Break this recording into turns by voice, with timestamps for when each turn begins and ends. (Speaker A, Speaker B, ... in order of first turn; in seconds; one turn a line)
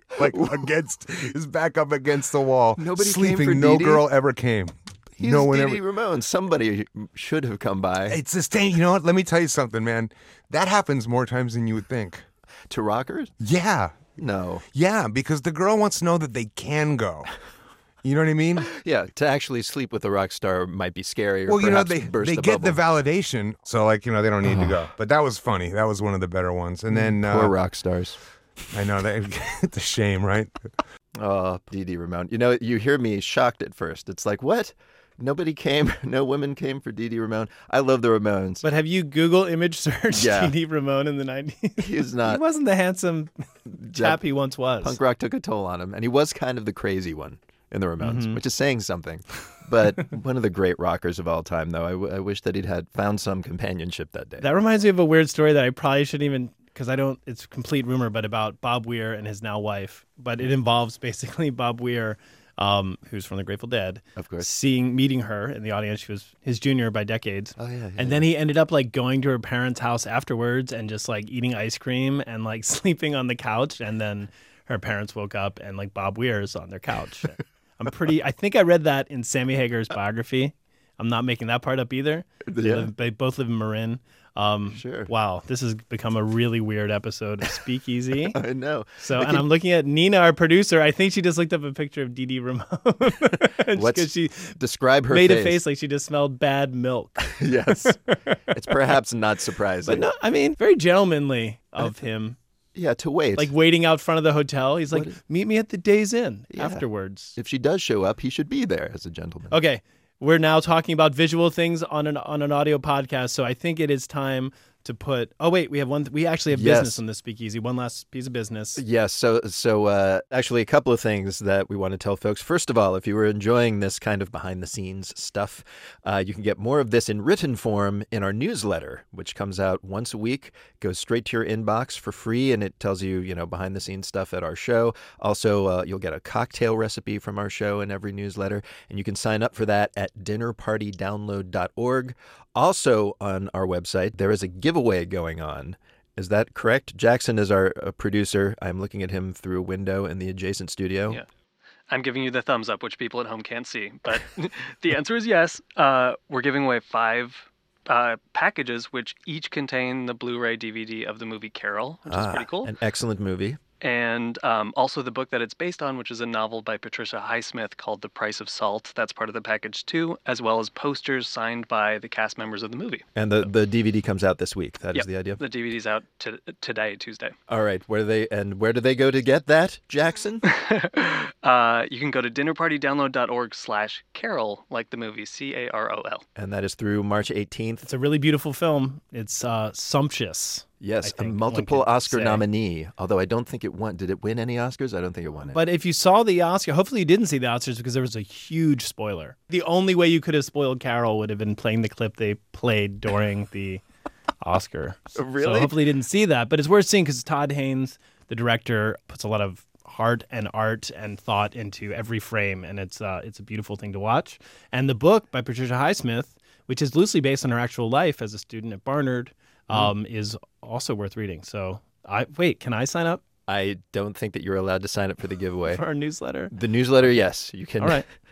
Speaker A: 0.2-5.8
Speaker B: 2.8-4.1
Speaker B: 5.2-8.2
Speaker A: 8.1-12.2
Speaker B: 12.7-13.3
Speaker A: 13.4-14.2
Speaker B: 14.2-14.6
Speaker A: 14.7-17.3
Speaker A: 18.0-18.7
Speaker B: 18.6-22.9
Speaker A: 21.5-27.6
Speaker B: 26.9-28.2
Speaker A: 28.7-30.5
Speaker B: 31.2-38.6
Speaker C: 38.6-45.0
Speaker B: 40.1-40.5
Speaker B: 41.8-42.4
Speaker B: 43.8-44.2
Speaker B: 44.8-54.5
Speaker C: 48.0-48.4
Speaker C: 54.4-88.4
Speaker B: 64.2-64.5
Speaker B: 67.6-68.2
Speaker B: 82.5-82.9
Speaker B: 84.7-85.1
Speaker B: 88.3-89.5
Speaker C: 89.0-94.6
Speaker B: 93.7-95.6
Speaker C: 95.1-98.4
Speaker B: 97.4-98.0
Speaker B: 98.5-100.1
Speaker C: 99.9-102.4
Speaker B: 102.8-103.5
Speaker C: 103.4-107.4
Speaker B: 106.5-106.8
Speaker B: 107.4-109.6
Speaker C: 109.5-118.8
Speaker B: 116.5-117.0
Speaker B: 118.8-151.2
Speaker D: 151.9-162.7
Speaker B: 162.1-163.6
Speaker D: 163.8-173.0
Speaker B: 173.2-175.4
Speaker D: 174.9-177.3
Speaker B: 177.5-180.4
Speaker D: 180.4-186.2
Speaker B: 186.4-187.8
Speaker C: 187.8-192.4
Speaker B: 190.8-195.6
Speaker C: 195.5-203.8
Speaker C: 204.4-223.2
Speaker B: 205.2-205.8
Speaker B: 223.5-225.8
Speaker C: 225.7-226.5
Speaker B: 226.5-228.0
Speaker C: 227.8-228.1